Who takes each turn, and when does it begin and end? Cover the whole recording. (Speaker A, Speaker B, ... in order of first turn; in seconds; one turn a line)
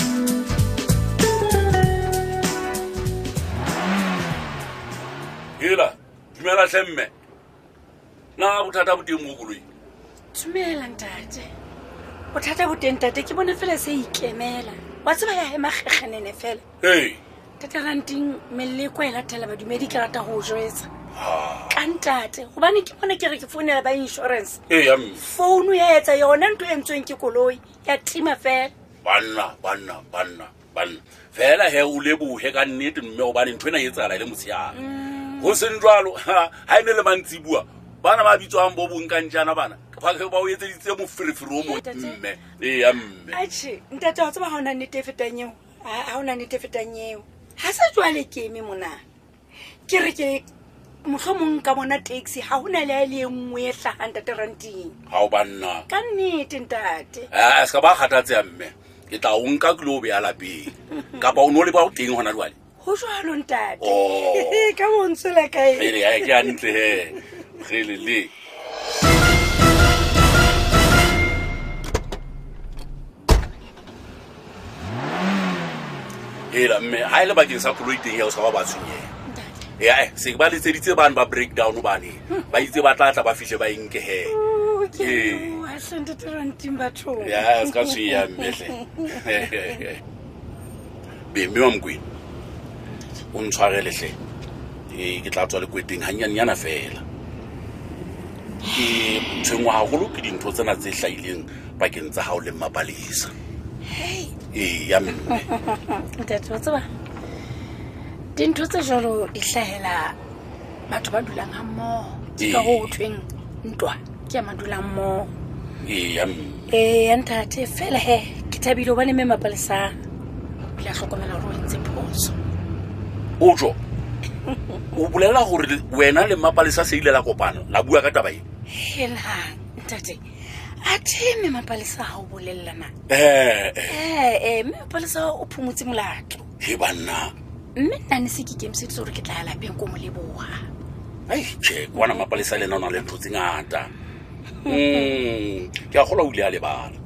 Speaker A: 5.6-7.1
Speaker A: 8.4-9.6
Speaker B: 10.3-11.4
Speaker B: 12.3-16.6
Speaker A: 16.8-17.2
Speaker B: 17.6-20.9
Speaker A: 21.1-21.8
Speaker B: 21.7-24.6
Speaker A: 24.7-25.2
Speaker B: 25.2-28.7
Speaker A: 29.0-43.4
Speaker B: 34.8-35.5
Speaker B: 41.8-42.1
Speaker B: 43.3-49.0
Speaker B: 49.9-50.4
Speaker B: 51.0-54.9
Speaker A: 55.1-55.8
Speaker B: 55.9-57.2
Speaker A: 57.3-62.5
Speaker B: 62.8-66.3
Speaker A: 63.8-64.8
Speaker A: 65.7-68.3
Speaker A: 76.5-79.1
Speaker A: 79.8-84.3
Speaker B: 84.3-87.9
Speaker A: 84.9-85.6
Speaker A: 87.2-90.0
Speaker A: 91.3-92.0
Speaker A: 93.3-94.2
Speaker A: 94.9-97.0
Speaker A: 98.7-103.3
Speaker B: 104.0-104.3
Speaker A: 104.5-105.5
Speaker B: 106.2-106.8
Speaker B: 108.4-110.1
Speaker B: 110.9-115.3
Speaker A: 112.4-112.9
Speaker A: 115.8-116.7
Speaker B: 116.7-119.9
Speaker B: 120.8-122.3
Speaker A: 123.4-123.8
Speaker A: 124.9-128.4
Speaker B: 128.8-130.2
Speaker B: 130.8-132.9
Speaker A: 133.1-134.0
Speaker B: 133.9-136.4
Speaker A: 136.6-137.3
Speaker B: 137.8-140.5
Speaker A: 141.3-143.9
Speaker B: 144.7-145.0
Speaker A: 144.7-147.0